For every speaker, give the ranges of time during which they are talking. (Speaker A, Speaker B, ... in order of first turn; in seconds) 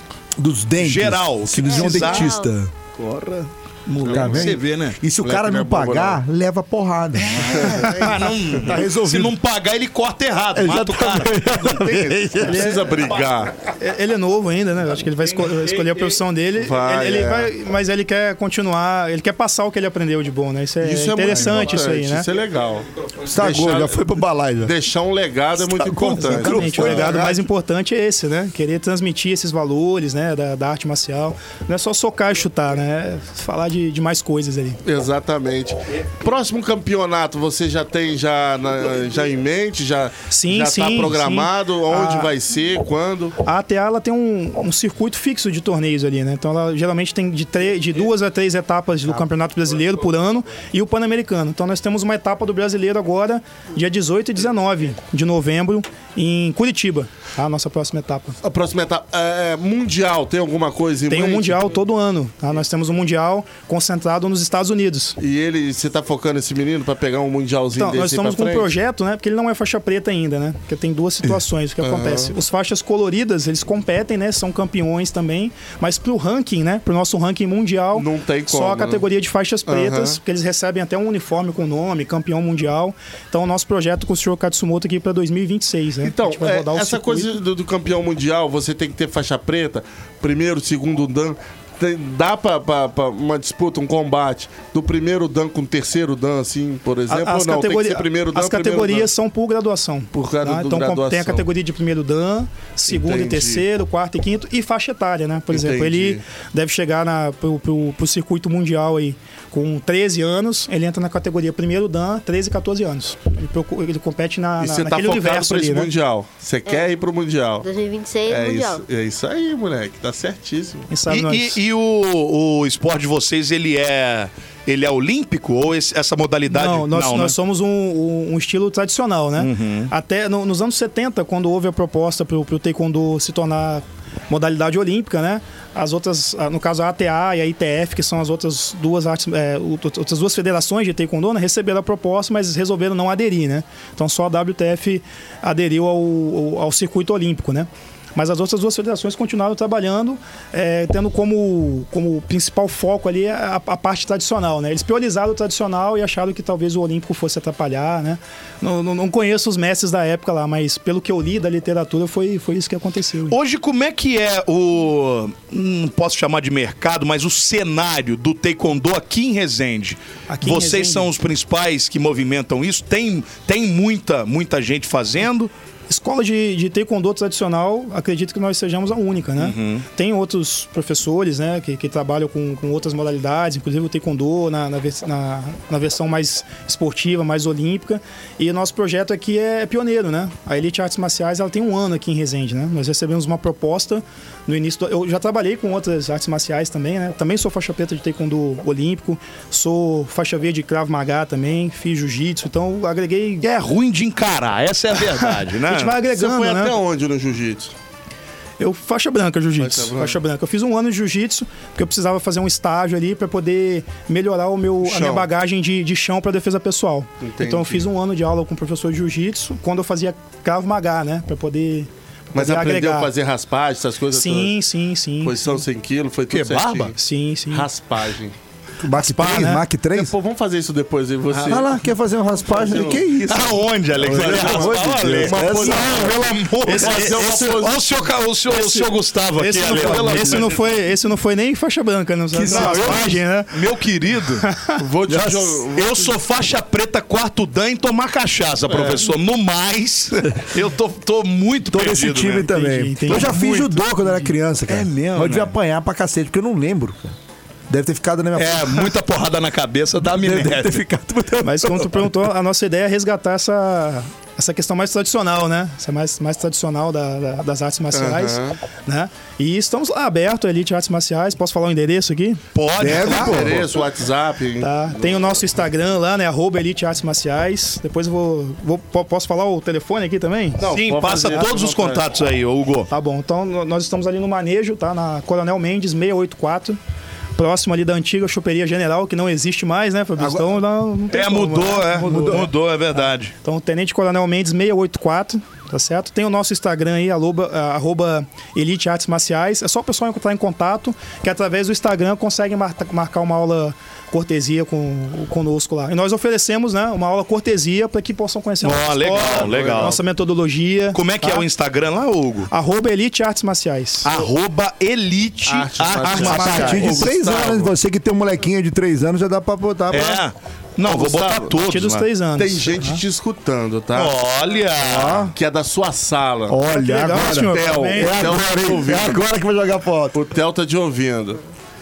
Speaker A: 0.4-2.7, 4.1-9.3, 10.6-12.9, 23.3-24.8, 25.6-27.4, 228.8-230.1, 231.5-236.3, 242.3-243.1, 245.1-245.6, 251.7-257.1, 257.7-258.9, 260.0-262.1, 272.8-273.7, 290.2-290.6, 292.0-292.5, 316.4-320.2, 324.8-325.3, 326.5-330.2
Speaker B: 0.8-2.4, 2.9-5.0, 7.2-11.3, 15.4-16.2, 121.1-127.4, 129.4-129.9, 163.3-175.5, 179.4-179.9, 203.4-206.0, 226.3-226.9, 231.3-231.7, 233.2-240.6, 242.4-244.5, 245.7-252.5, 253.1-253.8, 254.7-255.6, 258.4-260.9, 272.5-273.6, 280.7-282.9, 291.1-293.3, 308.6-310.0, 310.9-312.5, 314.1-317.1, 319.9-322.1, 323.9-325.3
Speaker C: 1.7-2.5, 116.7-116.9, 117.6-118.8
Speaker D: 4.0-4.5, 5.2-6.2, 7.6-7.9, 11.7-13.5, 16.6-17.5, 20.8-24.0, 24.6-27.3, 34.9-43.4, 58.4-61.7, 65.2-68.7, 71.8-72.3, 77.9-79.0, 79.7-80.2, 86.0-99.1, 100.1-101.5, 102.9-103.7, 105.5-106.2, 114.6-117.7, 118.3-120.9, 206.1-207.7, 209.6-210.2, 214.8-215.3, 217.2-217.9, 222.3-224.6, 225.2-227.0, 227.5-228.3, 229.9-231.8, 232.4-233.1, 234.0-237.9, 239.7-240.4, 244.8-246.1, 248.7-249.0, 267.9-268.6, 272.9-275.3, 280.6-282.1, 309.1-310.0, 315.4-317.7, 320.9-321.6, 322.4-324.1, 325.3-326.6, 327.3-329.2, 330.1-331.4
Speaker E: 12.4-13.0, 13.8-22.3, 26.1-34.8, 40.3-42.3, 43.4-58.4, 61.1-65.2, 67.8-87.4, 97.1-115.9, 120.9-121.6, 126.5-163.4, 170.3-171.1, 175.9-203.5, 205.0-206.8, 208.6-223.1, 224.1-225.6, 227.0-227.7, 228.9-229.7, 236.6-237.6, 238.5-243.6, 244.4-244.8, 252.4-253.6, 261.4-272.4, 274.6-281.4, 282.9-286.8, 287.4-292.5, 293.4-311.5, 312.5-314.1, 316.0-316.9, 321.6-323.0, 326.7-328.3